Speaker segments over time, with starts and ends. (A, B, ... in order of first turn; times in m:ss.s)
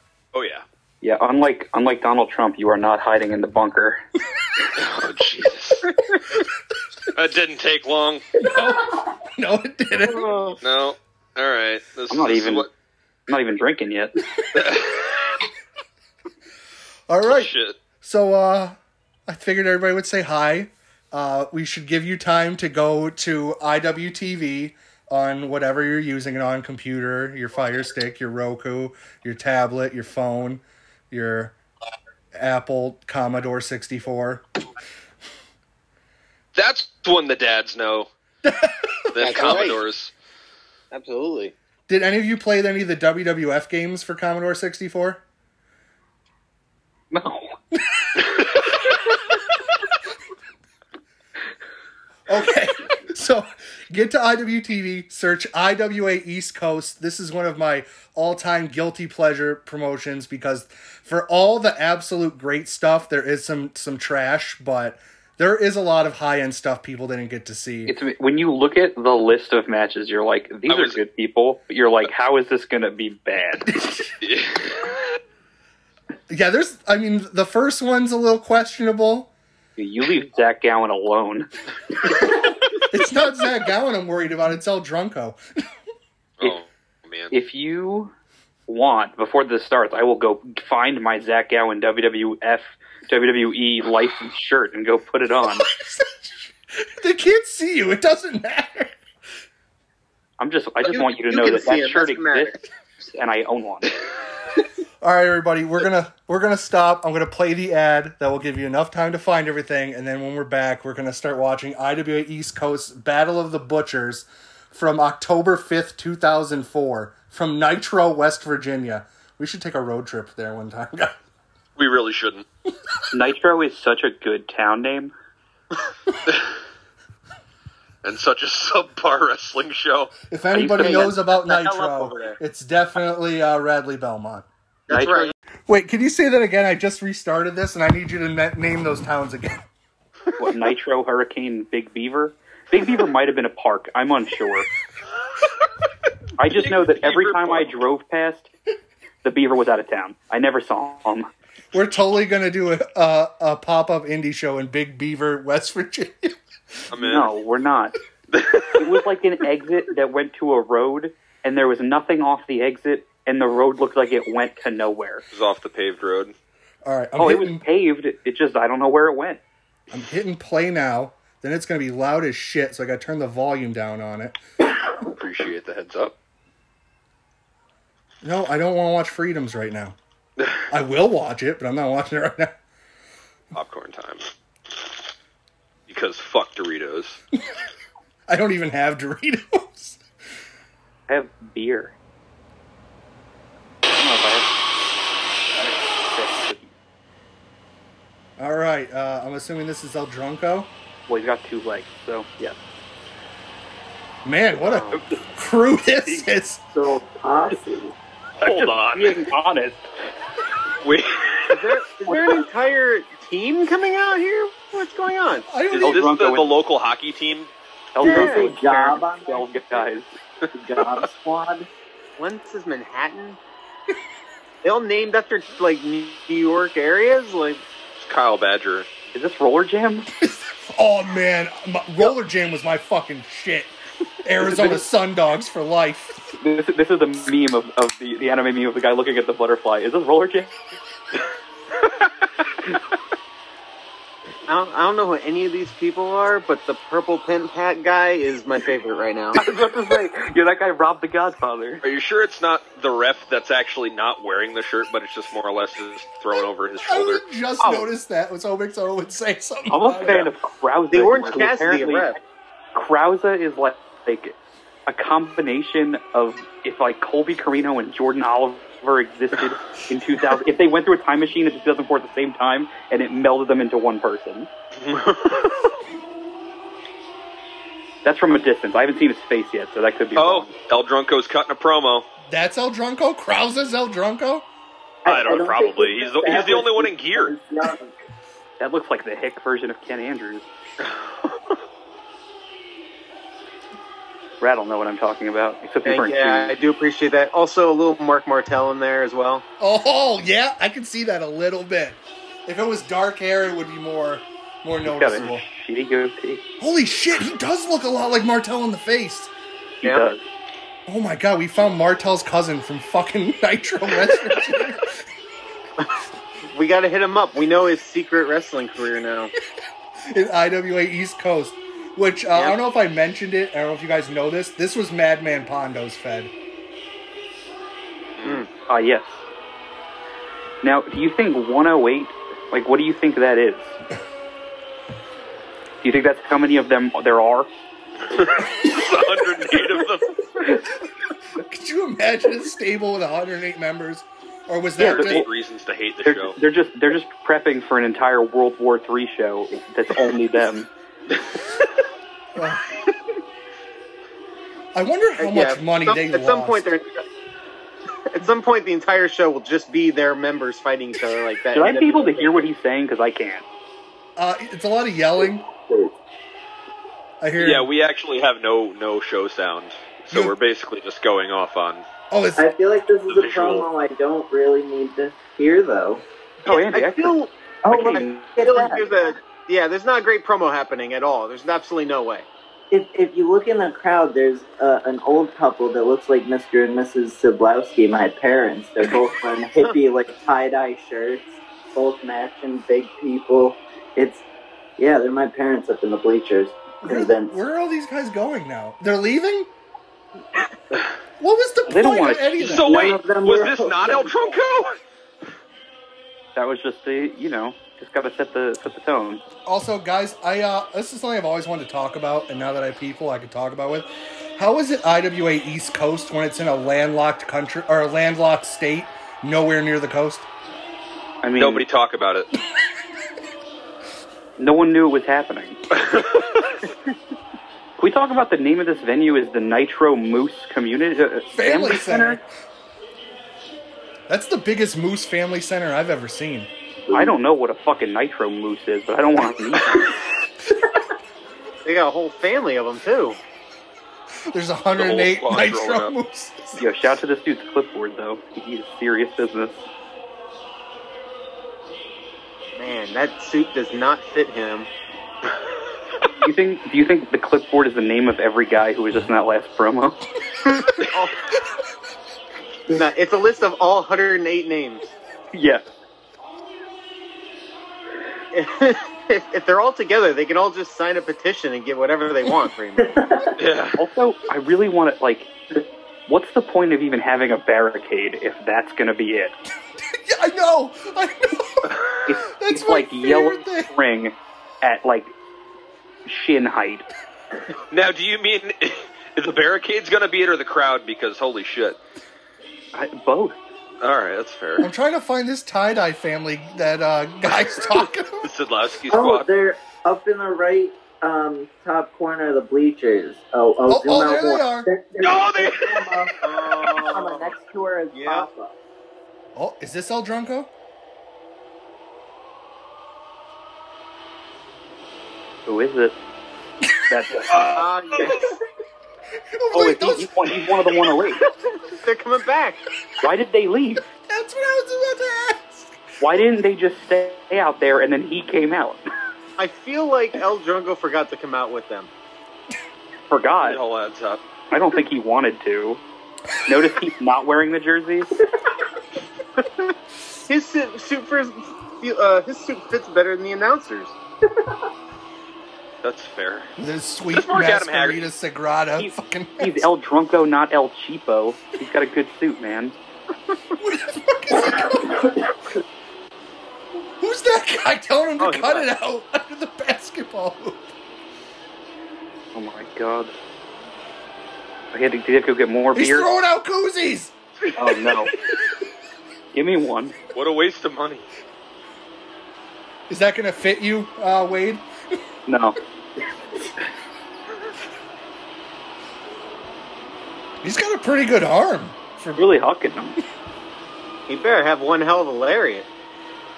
0:00.3-0:00.6 A
0:01.0-0:04.0 B
0:04.8-0:05.9 A
0:07.1-0:08.2 A
0:08.4-0:10.3 C
0:10.6-0:12.7 A
0:12.1-0:12.7 B
0:13.3-0:14.2 B
0:14.5-0:15.4 A
0:17.1-0:31.5 C
0:17.2-0:17.8 A
0:32.3-0:34.4 C
0:36.5-0:38.1 A
0:38.4-0:39.1 C
0:39.1-0:40.1 A
0:39.2-0:39.8 D
0:40.9-0:41.5 D
0:41.9-0:45.2 C
0:47.1-0:47.6 B
0:52.3-1:07.9 C
1:07.8-1:13.7 B
1:10.7-1:11.0 A
1:13.6-1:14.1 C
1:14.2-1:15.0 A
1:16.3-1:19.3 C
1:19.8-1:21.5 B
1:22.8-1:25.6 C
1:26.4-1:27.3 A
1:27.3-1:28.1 B
1:28.7-1:35.7 B
1:35.8-1:39.0 C
1:40.4-1:44.0 B
1:40.8-1:42.6 D
1:45.0-2:01.2 C
2:01.8-2:02.4 A
2:03.1-2:05.1 B
2:08.0-2:10.1 A
2:10.3-2:14.5 C
2:10.5-2:11.2 B
2:11.3-2:12.4 D
2:14.9-2:15.3 D
2:14.9-2:15.3 B
2:15.7-2:19.6 C
2:20.4-2:24.7 B
2:26.4-2:28.5 B
2:26.4-2:27.7 A
2:29.2-2:31.3 B
2:31.7-2:36.4 C
2:36.9-2:37.3 A
2:37.0-2:38.0 B
2:38.3-2:38.8 A
2:38.7-2:45.2 B
2:45.3-2:46.3 A
2:46.8-2:47.6 C
2:47.2-2:49.4 B
2:49.9-2:54.4 C
2:55.0-2:56.1 A
2:58.2-3:00.0 C
3:00.4-3:00.6 A
3:00.7-3:02.5 C
3:03.5-3:04.3 A
3:05.9-3:07.2 A
3:08.3-3:10.0 C
3:11.1-3:11.9 B
3:13.9-3:14.7 B
3:15.5-3:16.7 B
3:18.4-3:20.7 C
3:21.1-3:22.6 B
3:24.2-3:26.6 C
3:24.6-3:24.9 D
3:24.9-3:25.2 B
3:26.7-3:27.9 E
3:28.4-3:29.2 A
3:28.4-3:29.8 B
3:30.8-3:31.7 A
3:31.5-3:35.5 D
3:32.0-3:32.4 B
3:35.5-3:36.0 C
3:35.7-3:36.5 B
3:35.8-3:37.5 A
3:37.9-3:40.1 B
3:38.0-3:39.8 E
3:38.0-3:38.5 D
3:40.4-3:41.0 A
3:40.5-3:41.7 E
3:42.2-3:43.4 D
3:44.6-3:47.6 D
3:48.0-3:48.9 A
3:49.1-3:50.1 B
3:50.2-3:56.3 C
3:56.4-4:00.5 B
4:04.5-4:09.4 D
4:09.4-4:11.8 B
4:11.8-4:17.2 A
4:16.8-4:20.2 C
4:17.6-4:17.9 B
4:19.7-4:22.2 B
4:20.0-4:20.3 D
4:20.9-4:22.2 D
4:22.7-4:34.5 B
4:34.8-4:35.7 A
4:38.0-4:40.5 B
4:40.2-4:42.0 A
4:42.3-4:44.4 C
4:45.0-4:47.4 A
4:45.0-4:47.9 E
4:48.6-4:50.5 B
4:54.4-4:56.6 B
4:55.8-4:59.4 D
4:59.6-5:05.4 C
5:04.8-5:06.4 B
5:06.6-5:09.3 C
5:09.8-5:10.2 B
5:09.8-5:10.1 D
5:10.9-5:15.0 C
5:16.5-5:19.3 D
5:20.1-5:26.3 C
5:28.2-5:28.5 A
5:28.7-5:29.2 B
5:30.6-5:33.8 B
5:35.8-5:37.5 B
5:38.1-5:40.2 A
5:41.3-5:45.3 C
5:44.8-5:46.4 A
5:44.8-5:45.3 B
5:46.0-5:50.7 B
5:52.3-5:52.7 C
5:54.7-5:56.6 C
5:55.2-5:57.0 D
5:58.1-6:02.4 D
6:01.5-6:03.4 B
6:04.2-6:05.5 C
6:07.2-6:07.7 C
6:07.4-6:11.8 A
6:10.1-6:10.4 C
6:12.1-6:12.5 C
6:12.4-6:16.0 E
6:13.1-6:13.7 A
6:16.4-6:17.2 B
6:16.4-6:22.3 D
6:17.7-6:18.9 E
6:17.7-6:18.1 B
6:22.7-6:34.2 E
6:34.8-6:37.3 E
6:36.8-6:39.5 C
6:41.2-6:42.7 C
6:41.7-6:42.5 B
6:42.4-6:44.8 A
6:42.6-6:44.4 E
6:46.3-6:49.2 B
6:49.4-7:00.3 C
7:01.2-7:01.6 B
7:01.4-7:02.3 A
7:04.4-7:05.6 B
7:05.7-7:06.3 A
7:07.8-7:12.2 B
7:11.3-7:12.2 C
7:14.1-7:16.5 C
7:16.9-7:17.1 E
7:16.9-7:20.0 B
7:21.6-7:23.2 D
7:24.3-7:26.7 C
7:24.8-7:25.9 A
7:26.6-7:29.7 B
7:32.6-7:34.7 D
7:36.2-7:40.0 B
7:40.5-7:41.2 D
7:42.7-7:44.9 D
7:45.3-7:45.6 B
7:48.3-7:53.0 D
7:52.8-7:53.3 E
7:53.4-7:53.8 A
7:53.8-7:55.3 B
7:56.1-7:59.4 B
7:59.9-8:01.8 C
8:01.6-8:02.0 A
8:02.0-8:05.1 B
8:02.4-8:03.7 C
8:06.0-8:06.9 B
8:07.7-8:11.8 A
8:12.7-8:13.4 B
8:13.8-8:14.7 A
8:14.6-8:18.2 C
8:18.2-8:19.3 A
8:18.9-8:28.5 E
8:23.6-8:24.7 C
8:25.0-8:26.1 A
8:26.2-8:27.4 D
8:27.9-8:28.3 D
8:29.3-8:30.5 C
8:35.4-8:36.0 B
8:36.9-8:37.3 B
8:37.3-8:38.2 A
8:37.4-8:38.4 D
8:39.3-8:40.5 C
8:39.5-8:41.2 B
8:41.7-8:42.6 D
8:43.0-8:43.8 B
8:44.1-8:45.7 C
8:46.0-8:48.9 B
8:49.4-8:51.9 D
8:53.1-8:53.6 B
8:53.4-8:54.2 A
8:54.5-8:55.8 B
8:56.4-8:58.2 B
8:59.4-8:59.7 D
9:00.3-9:04.0 D
9:05.8-9:06.5 A
9:06.6-9:09.7 C
9:07.1-9:08.1 A
9:08.8-9:12.7 B
9:13.6-9:15.1 C
9:17.0-9:20.7 C
9:18.2-9:18.7 D
9:22.3-9:23.1 B
9:24.7-9:26.1 B
9:25.7-9:27.1 C
9:27.5-9:28.1 B
9:29.3-9:30.0 B
9:30.1-9:31.0 A
9:32.9-9:35.0 C
9:35.3-9:35.6 B
9:40.4-9:42.3 C
9:42.2-9:43.0 B
9:44.1-9:45.7 D